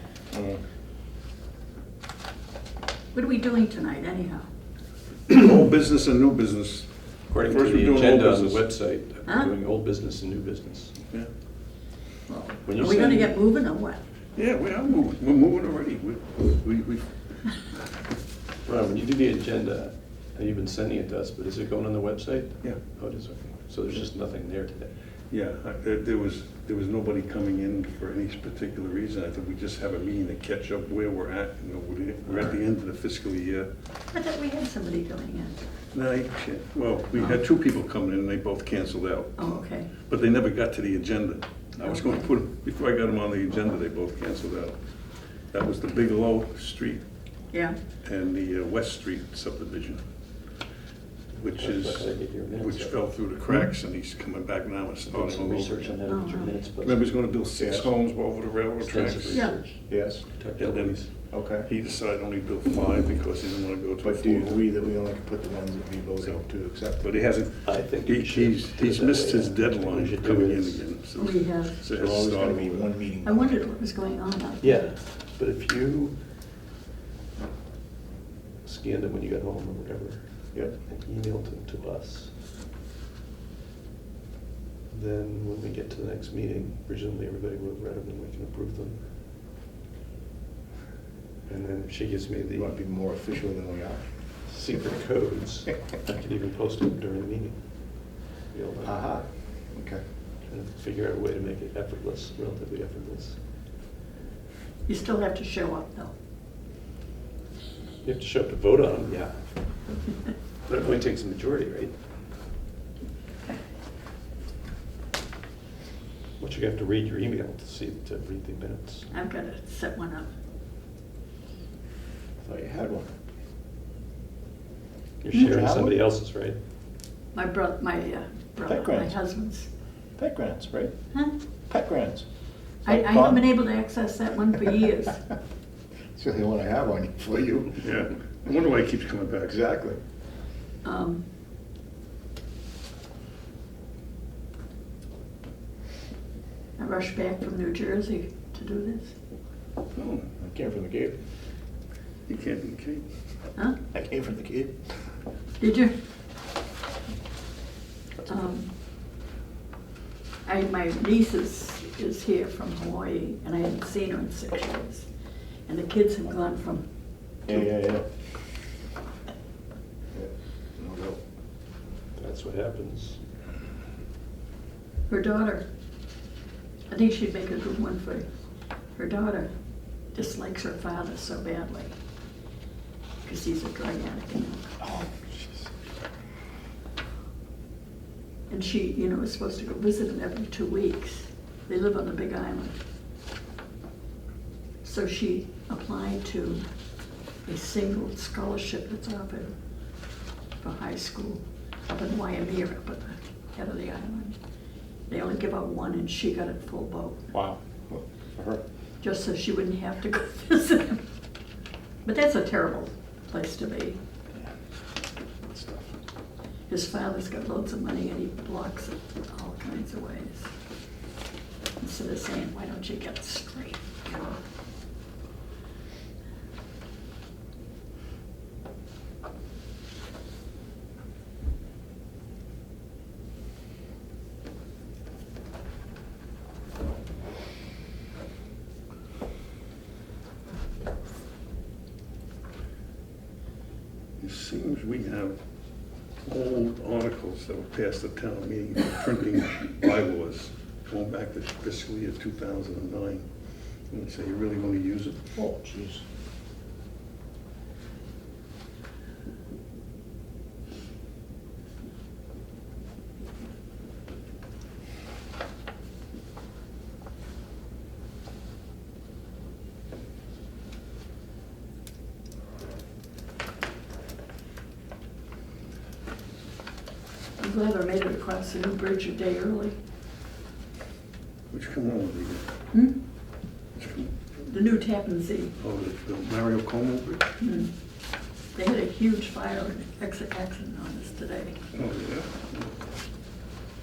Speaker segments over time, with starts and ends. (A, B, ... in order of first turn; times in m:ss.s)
0:00.3-0:00.6 A
0:03.1-0:04.5 B
0:05.3-0:08.6 C
0:07.3-0:11.0 D
0:09.3-0:09.5 B
0:12.3-0:14.0 B
0:12.6-0:13.3 D
0:14.4-0:17.7 C
0:18.6-0:24.9 D
0:25.3-0:33.7 C
0:34.1-0:35.6 B
0:35.9-0:44.8 C
0:39.4-0:39.9 B
0:41.8-0:42.3 B
0:45.5-0:47.0 C
0:48.0-0:50.0 C
0:51.3-0:53.1 D
0:51.4-0:56.0 C
0:55.1-0:57.1 D
0:56.1-0:56.5 B
0:56.8-0:59.5 C
0:57.5-0:57.9 A
0:58.8-1:01.1 D
0:59.3-0:59.6 B
0:59.9-1:00.2 A
1:00.6-1:01.1 C
1:01.3-1:01.7 A
1:01.6-1:04.6 C
1:04.0-1:07.2 A
1:07.0-1:12.9 C
1:07.6-1:10.8 D
1:11.2-1:11.8 B
1:12.0-1:13.6 A
1:13.2-1:14.9 B
1:14.6-1:16.2 D
1:18.6-1:22.3 D
1:24.9-1:29.0 D
1:31.4-1:32.7 D
1:32.5-1:34.0 A
1:34.5-1:39.3 D
1:38.8-1:40.0 A
1:40.5-1:43.4 D
1:44.8-1:46.1 B
1:48.0-1:49.8 D
1:50.6-1:51.9 D
1:56.4-1:59.1 D
1:59.1-2:00.3 B
2:02.4-2:03.1 A
2:05.2-2:06.6 D
2:05.3-2:05.6 B
2:05.3-2:06.0 A
2:07.3-2:09.7 B
2:08.7-2:09.2 A
2:10.2-2:10.9 A
2:11.7-2:12.2 A
2:12.8-2:15.2 B
2:12.8-2:13.5 A
2:16.1-2:17.8 A
2:17.8-2:19.6 C
2:19.4-2:20.0 A
2:20.8-2:21.2 B
2:26.8-2:29.2 B
2:29.9-2:30.3 C
2:30.4-2:31.2 A
2:32.3-2:33.1 C
2:33.9-2:35.0 A
2:35.6-2:35.9 B
2:38.2-2:38.7 B
2:40.4-2:45.1 B
2:45.6-2:46.8 B
2:47.5-2:48.1 A
2:50.1-2:51.2 A
2:52.1-2:53.2 D
2:55.1-2:55.7 B
2:56.9-2:58.3 B
2:58.9-2:59.5 B
3:00.1-3:01.9 B
3:03.2-3:04.8 B
3:04.8-3:05.7 A
3:08.5-3:12.8 B
3:14.8-3:16.6 B
3:17.4-3:19.5 B
3:20.6-3:24.4 B
3:25.1-3:27.2 B
3:27.3-3:28.6 A
3:29.0-3:31.0 B
3:32.0-3:34.0 B
3:35.5-3:35.9 A
3:36.7-3:40.5 B
3:41.8-3:44.4 B
4:04.2-4:05.4 C
4:06.2-4:13.2 C
4:13.9-4:15.2 C
4:15.3-4:16.0 A
4:37.4-4:39.8 B
4:41.5-4:42.5 C
4:42.7-4:43.0 B
4:43.8-4:44.1 C
4:44.5-4:45.5 B
4:45.6-4:47.3 C
4:47.4-4:47.7 B
4:48.5-4:51.7 B
4:51.7-4:52.8 C